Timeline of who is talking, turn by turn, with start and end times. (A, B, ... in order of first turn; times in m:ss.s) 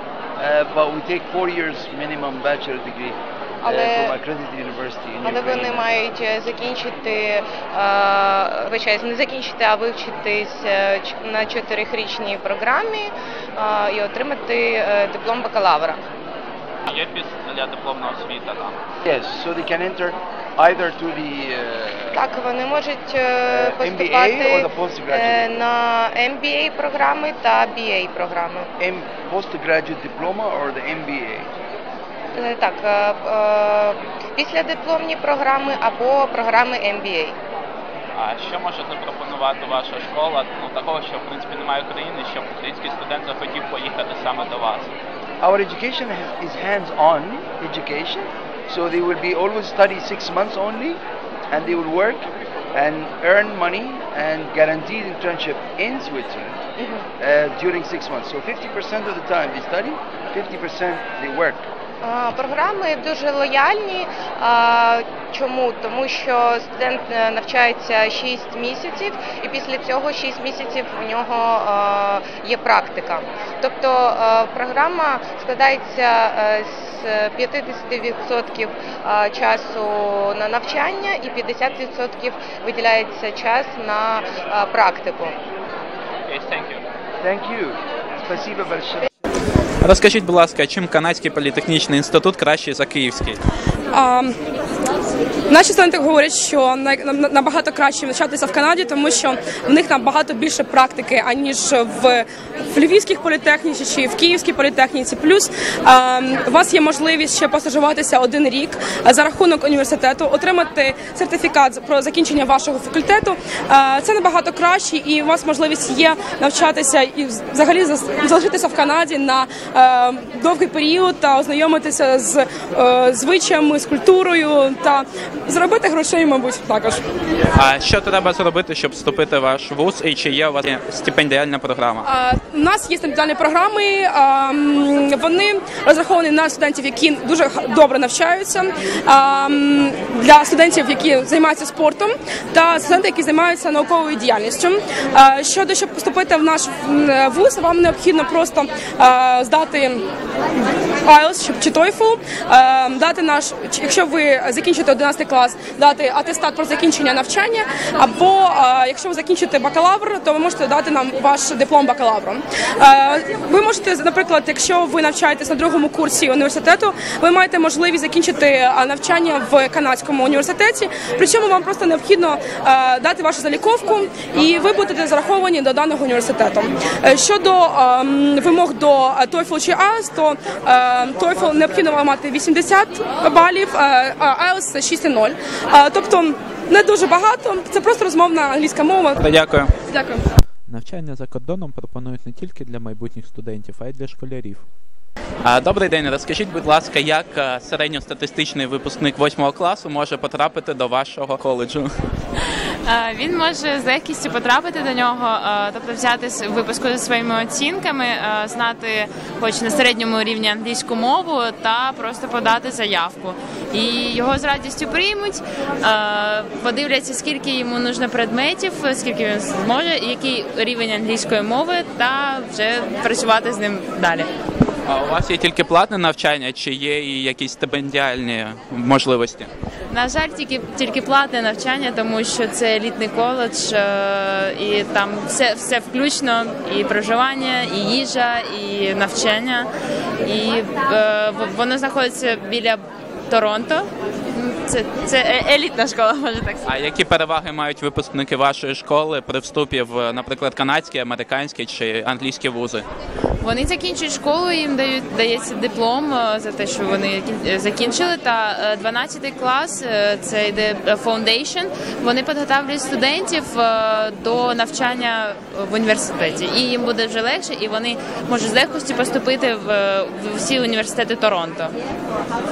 0:00.4-0:05.9 A
0:03.6-0:04.1 B
0:05.2-0:16.0 B
0:16.8-0:18.8 C
0:19.0-0:22.2 A
0:22.1-0:28.7 B
0:23.5-0:25.5 A
0:28.8-0:31.5 A
0:32.3-0:37.4 B
0:38.1-0:44.9 C
0:45.4-0:56.6 A
0:56.8-0:57.1 B
0:57.2-1:01.7 A
1:02.0-1:25.4 B
1:26.2-1:26.8 C
1:27.2-1:29.1 A
1:29.8-1:33.4 C
1:33.9-1:34.4 D
1:35.5-2:07.0 D
2:07.5-2:12.1 C
2:12.0-2:30.0 D
2:31.1-3:09.2 D
3:09.2-3:09.7 C
3:09.9-3:10.3 D
3:10.7-3:14.6 C
3:15.4-3:21.9 C
3:22.8-3:44.3 E
3:44.8-3:49.5 C
3:49.9-3:59.7 E
4:00.2-4:06.7 E
4:06.6-4:12.8 C
4:13.4-4:31.7 E